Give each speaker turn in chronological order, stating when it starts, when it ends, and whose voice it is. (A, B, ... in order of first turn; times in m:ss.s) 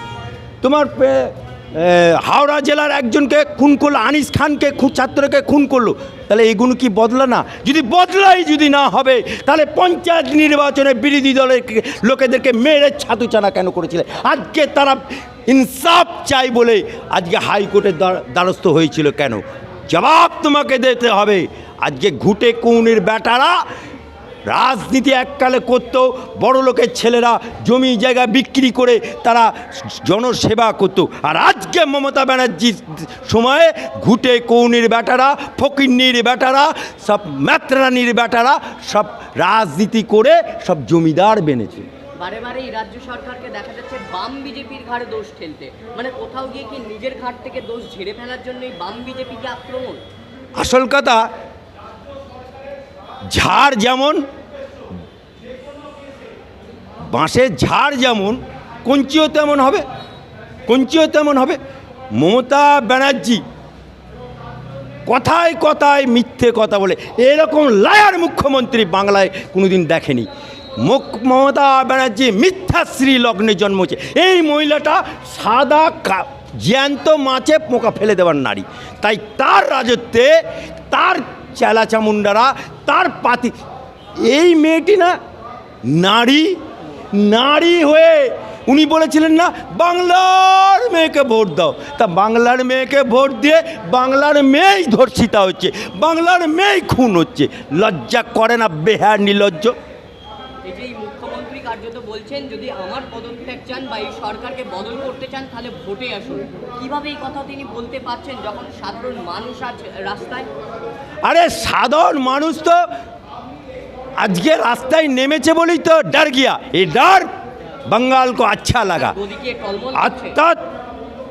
0:00.6-0:23.6 A
0:24.5-0:41.9 A
0:42.2-0:50.0 B
0:50.6-0:51.3 A
0:53.3-0:54.2 A
0:57.1-0:59.8 A
1:00.7-1:01.6 A
1:02.1-1:03.4 A
1:05.1-1:23.5 A
1:24.2-1:25.2 A
1:25.8-1:26.6 A
1:27.1-1:39.8 A
1:40.6-1:50.5 B
1:51.2-1:52.8 A
1:54.2-1:57.3 A
1:57.9-1:59.2 A
1:59.0-2:00.4 B
2:00.0-2:00.6 A